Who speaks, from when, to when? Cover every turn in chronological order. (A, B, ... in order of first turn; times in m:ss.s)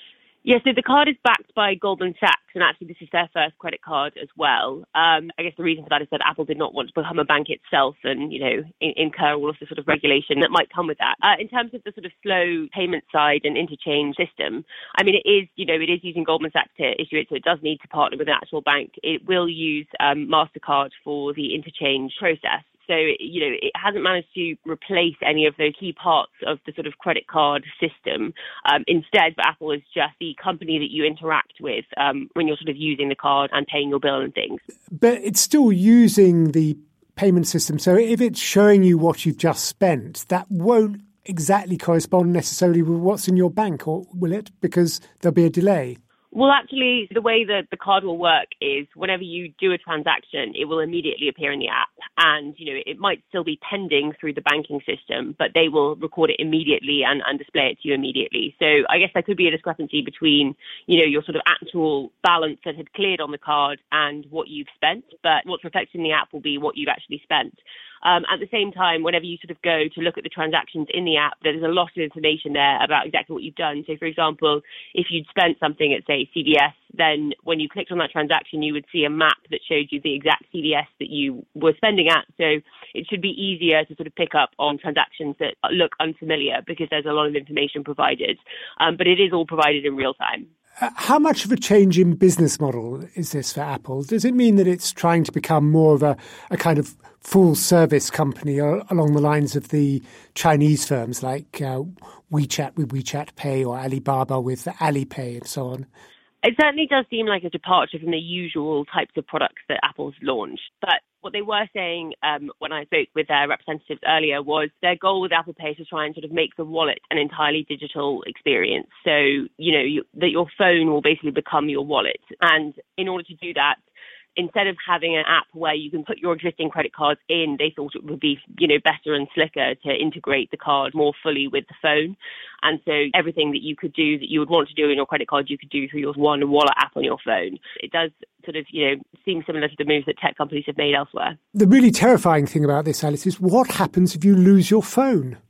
0:00.4-0:34.6 A
0:34.9-0:46.0 B
0:46.3-1:30.5 A
1:30.8-1:45.9 B
1:46.4-2:03.8 A
2:04.4-2:21.4 A
2:21.5-2:25.4 B